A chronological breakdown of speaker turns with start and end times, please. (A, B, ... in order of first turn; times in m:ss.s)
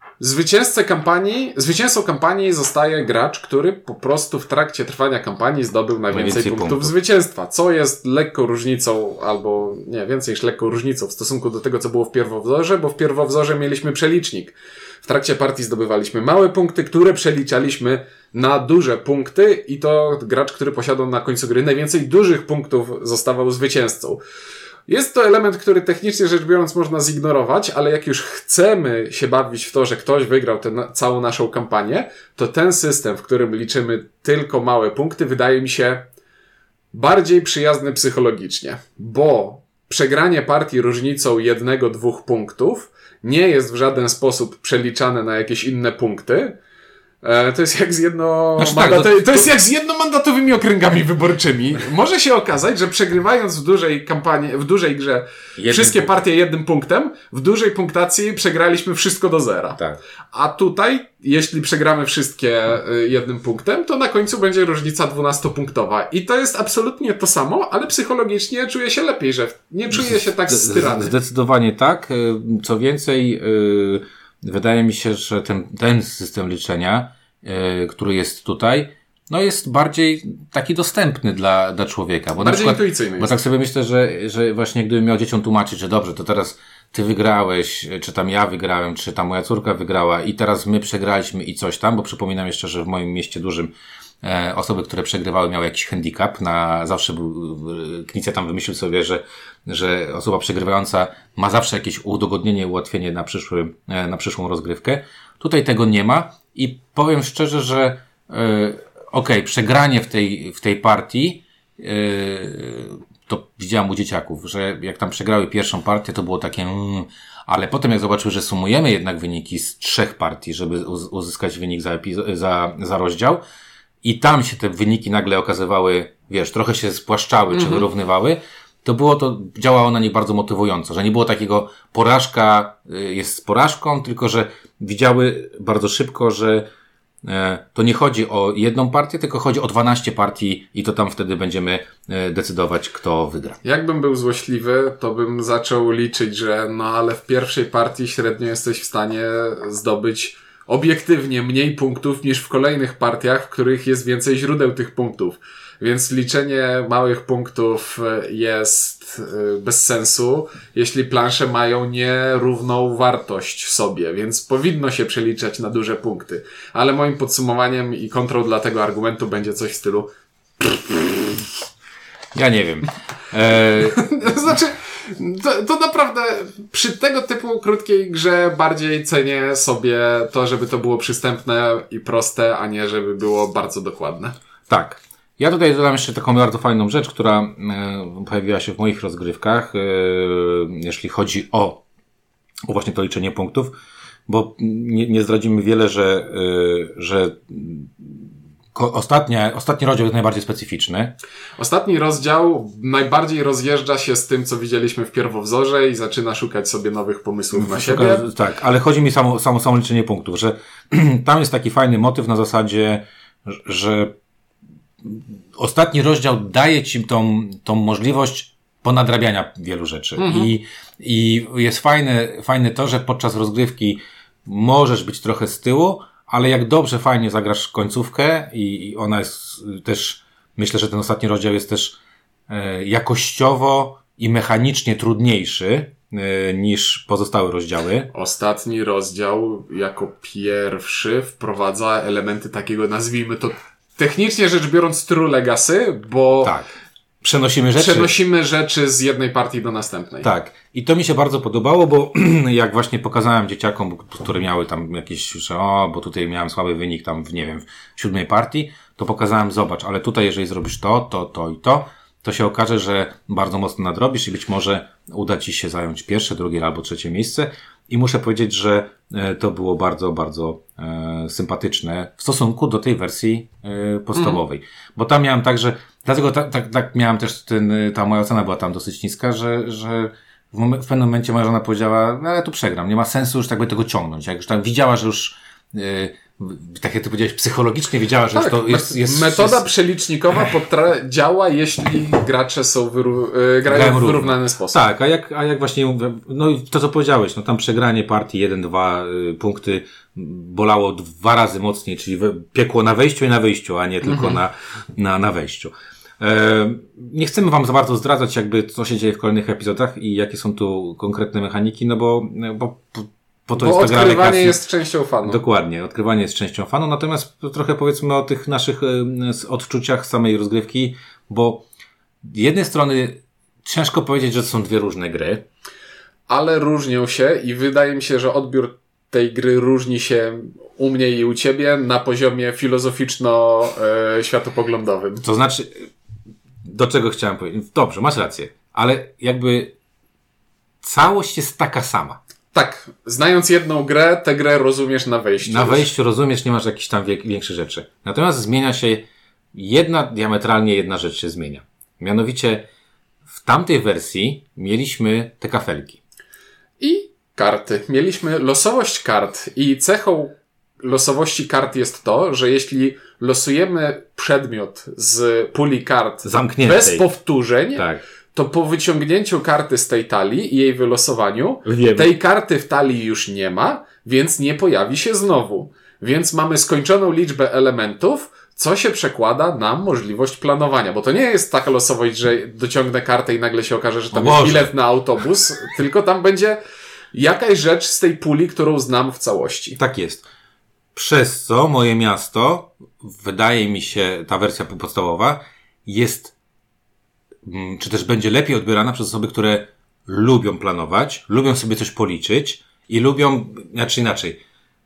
0:00.2-0:24.2 A
0:06.1-0:06.9 B
0:24.9-0:36.1 A
0:36.9-0:46.6 A
0:47.2-0:59.8 A
0:48.6-0:49.4 B
0:55.6-0:56.2 B
1:00.3-1:11.1 A
1:09.9-2:03.4 B
1:22.4-1:23.3 A
2:04.0-2:16.7 B
2:07.5-2:07.8 A
2:17.2-2:23.6 B
2:23.6-2:51.4 A
2:52.3-2:54.3 B
2:53.9-3:04.3 A
3:04.7-3:11.8 B
3:12.7-3:13.7 B
3:14.3-3:18.2 B
3:18.7-3:21.1 B
3:21.6-3:28.2 A
3:27.5-3:34.1 B
3:35.0-3:52.0 B
3:40.2-3:40.5 A
3:52.5-3:58.1 B
3:58.1-4:06.5 A
4:06.4-4:06.7 B
4:07.2-4:08.1 B
4:07.8-4:10.3 A
4:10.2-4:49.6 B
4:34.1-4:34.4 A
4:48.3-4:54.8 A
4:53.6-5:14.6 B
5:04.0-5:04.4 A
5:13.6-5:15.4 A
5:15.2-5:21.6 B
5:22.2-5:25.4 B
5:26.3-5:35.2 A
5:35.2-5:35.9 B
5:36.7-5:39.7 B
5:40.8-5:42.2 B
5:42.5-5:45.9 A
5:45.4-5:52.7 B
5:53.3-5:56.0 B
5:56.8-6:26.6 A
6:06.2-6:07.0 B
6:07.7-6:08.0 B
6:11.6-6:12.1 B
6:24.1-6:24.7 B
6:27.1-6:29.8 A
6:29.8-6:30.2 B
6:30.9-6:36.3 B
6:37.4-6:44.4 B